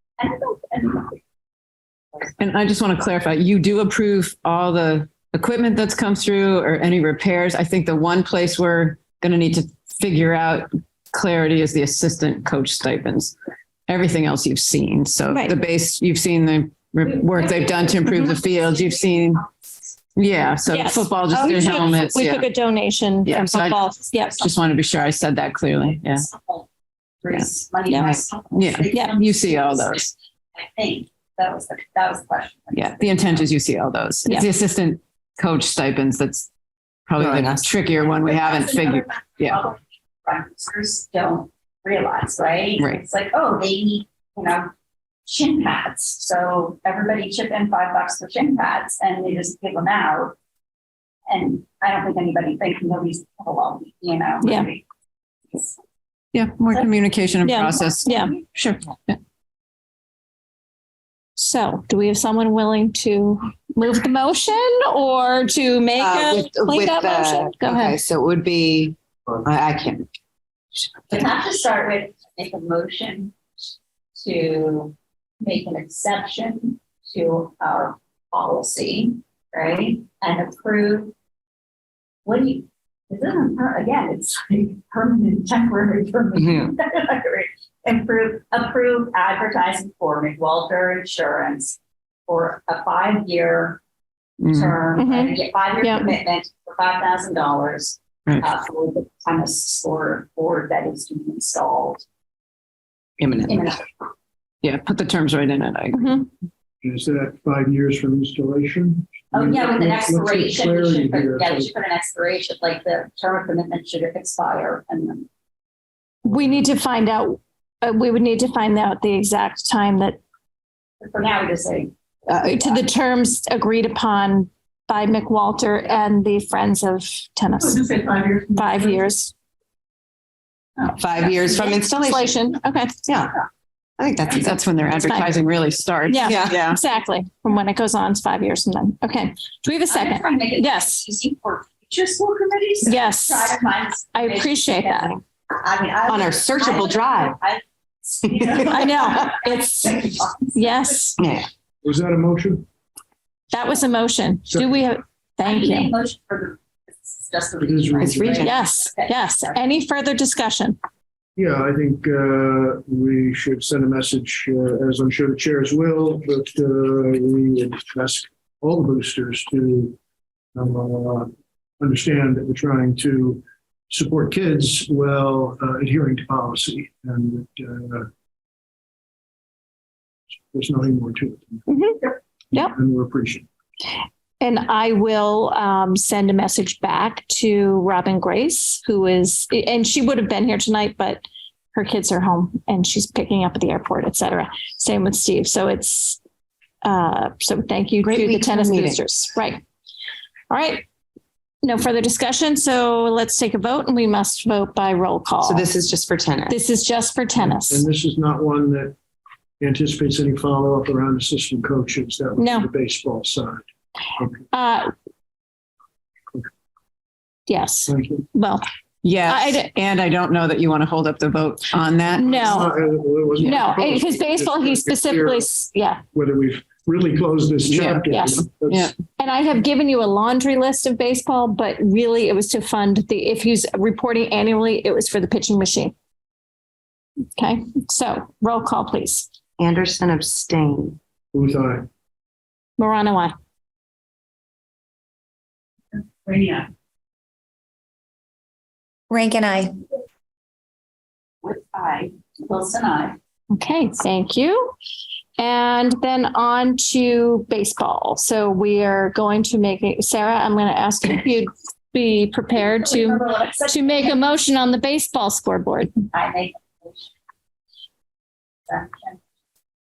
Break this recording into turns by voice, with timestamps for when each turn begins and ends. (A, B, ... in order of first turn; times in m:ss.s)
0:00.2-0:01.2 A
0:02.4-0:13.4 B
0:13.9-0:19.4 B
0:15.3-0:15.6 C
0:17.2-0:19.5 A
0:20.2-0:22.5 B
0:20.7-0:24.4 C
0:21.5-0:21.8 A
0:23.3-0:26.3 B
0:24.2-0:24.6 A
0:26.0-0:26.7 A
0:27.2-0:33.5 A
0:27.4-0:30.1 B
0:27.9-0:28.2 C
0:32.8-0:36.5 B
0:34.3-0:34.5 C
0:37.1-0:39.6 B
0:37.2-0:37.7 D
0:38.2-0:44.7 A
0:45.3-0:50.4 A
0:51.3-0:54.8 A
0:54.4-0:54.7 C
0:56.3-0:58.1 B
0:57.4-0:58.3 C
0:57.8-0:58.8 A
1:01.4-1:08.0 C
1:06.0-1:10.1 D
1:11.1-1:13.4 A
1:14.2-1:21.1 A
1:22.3-1:33.8 A
1:26.4-1:26.7 D
1:34.4-1:34.8 B
1:34.5-1:42.0 A
1:35.0-1:36.1 C
1:43.2-1:43.7 B
1:43.5-1:43.9 A
1:44.6-1:46.3 B
1:45.9-1:46.3 C
1:46.8-1:51.7 E
1:49.3-1:55.3 A
1:56.2-2:00.2 C
2:01.0-2:01.9 A
2:02.3-2:07.9 C
2:07.7-2:08.8 A
2:08.5-2:09.3 C
2:10.8-2:11.8 A
2:11.0-2:12.5 D
2:11.5-2:13.0 C
2:13.1-2:13.3 D
2:14.0-2:15.4 D
2:14.4-2:16.8 B
2:16.1-2:21.1 C
2:16.2-2:16.6 D
2:19.9-2:30.9 A
2:22.9-2:23.6 C
2:24.1-2:25.2 C
2:26.1-2:27.4 D
2:28.3-2:29.1 D
2:28.5-2:31.2 C
2:31.2-2:31.5 D
2:31.8-2:32.7 E
2:33.5-2:35.9 C
2:34.5-2:34.8 E
2:35.4-2:39.6 A
2:37.7-2:38.4 E
2:38.0-2:38.6 D
2:38.4-2:40.8 C
2:41.4-2:50.0 E
2:50.6-2:58.1 E
3:00.5-3:01.7 E
3:01.7-3:02.8 C
3:02.6-3:03.5 E
3:04.4-3:11.2 C
3:11.7-3:16.2 C
3:16.8-3:19.6 C
3:18.0-3:19.0 D
3:20.5-3:20.8 C
3:21.6-3:25.7 C
3:25.4-3:26.6 D
3:26.5-3:27.8 C
3:27.4-3:29.0 E
3:29.6-3:33.6 E
3:32.4-3:32.7 C
3:34.2-3:34.5 E
3:34.5-3:34.9 C
3:37.5-3:38.6 C
3:37.9-3:38.3 E
3:39.0-3:42.5 B
3:39.3-3:39.7 C
3:42.2-3:45.6 E
3:42.2-3:42.7 C
3:43.4-3:46.0 C
3:46.1-3:48.9 E
3:47.7-3:48.0 B
3:48.1-3:48.5 C
3:49.2-3:55.9 C
3:57.4-3:59.3 C
3:59.6-4:01.0 D
4:01.3-4:01.9 E
4:02.8-4:03.3 C
4:06.0-4:06.7 A
4:11.4-4:13.2 A
4:13.5-4:14.7 C
4:15.4-4:26.0 C
4:22.6-4:24.2 A
4:26.1-4:27.1 A
4:28.7-4:29.2 A